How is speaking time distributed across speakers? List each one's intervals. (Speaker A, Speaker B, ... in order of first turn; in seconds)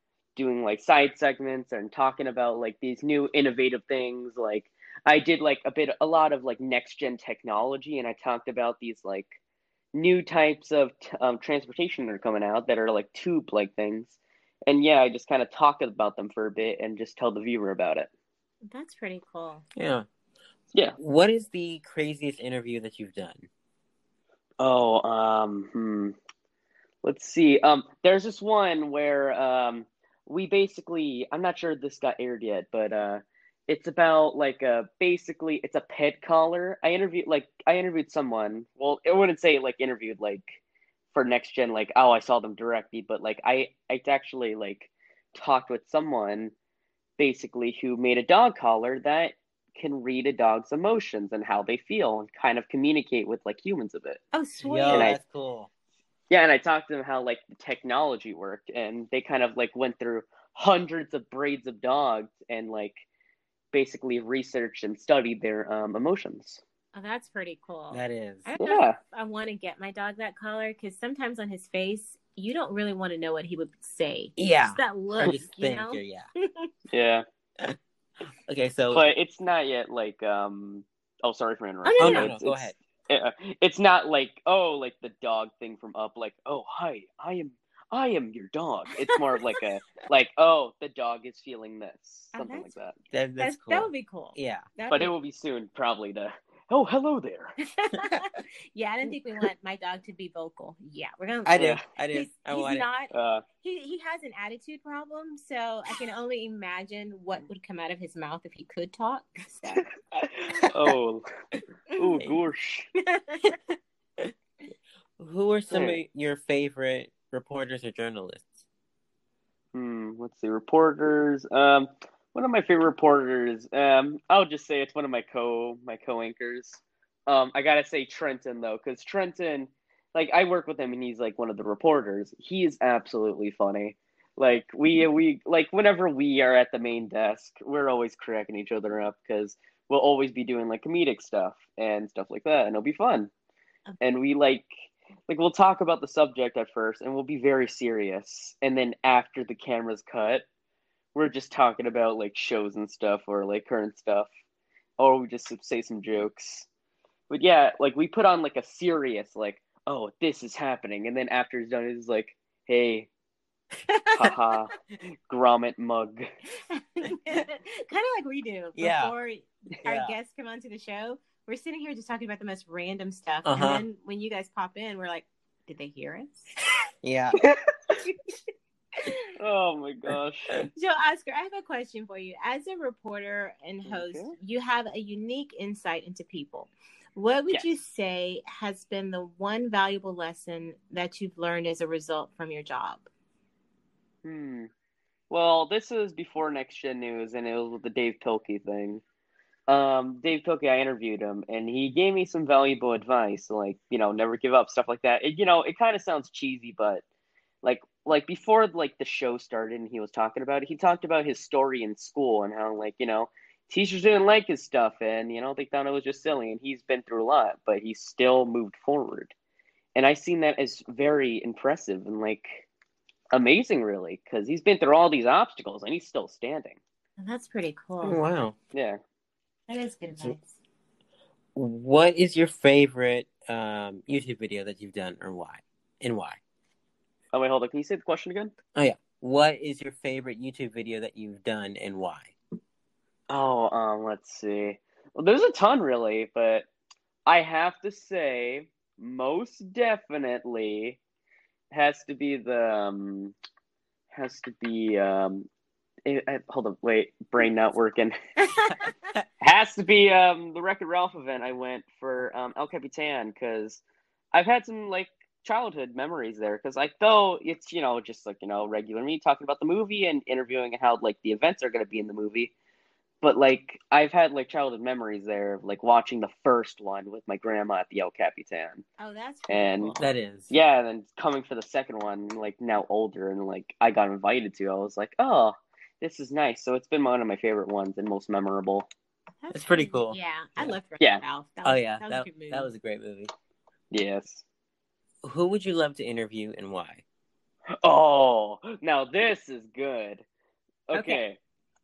Speaker A: 0.3-9.4, 9.9-18.1, 24.6-26.1, 27.0-40.6, 41.1-46.5, 47.2-54.2, 54.9-55.2, 56.3-63.0, 63.7-66.6, 68.6-69.0, 76.9-77.2, 78.9-93.0, 94.9-97.5, 103.1-103.4, 110.1-111.3, 112.0-112.9, 115.7-116.0, 119.7-143.3, 144.0-150.4, 151.1-154.3, 155.0-156.7, 157.3-163.1, 164.2-164.8, 165.3-166.3, 179.3-180.6, 183.8-184.3, 194.2-194.7, 195.3-199.0, 199.7-207.0, 207.6-219.3, 219.9-222.7, 223.3-226.8, 228.7-229.0, 237.3-238.5, 243.3-246.7, 247.2-251.0, 251.7-253.3, 254.1-255.5, 256.0-258.1, 259.4-263.8, 264.3-272.5, 273.2-278.8, 279.5-279.9, 280.5-288.9, 293.9-294.4, 297.8-300.2, 300.9-301.4
Speaker B: 18.6-19.6, 54.3-55.1, 66.9-76.7, 81.8-82.3, 92.3-92.7, 93.4-95.1, 97.8-103.1, 103.6-109.8, 113.1-113.5, 163.9-164.3, 166.6-176.5, 180.7-193.1, 227.2-228.2, 229.7-230.5, 258.4-258.9, 279.0-280.1, 289.4-292.7, 300.9-301.2
Speaker C: 19.7-20.1, 21.0-23.5, 54.6-55.7, 67.9-68.5, 74.4-76.3, 77.6-79.0, 82.0-82.8, 93.1-94.7, 101.5-102.8, 115.2-118.6, 168.8-169.1, 169.8-170.1, 173.4-173.8, 177.0-177.3, 228.0-228.5, 231.5-236.4, 238.7-242.3, 280.0-280.5, 289.5-290.8, 291.6-293.3, 295.2-297.0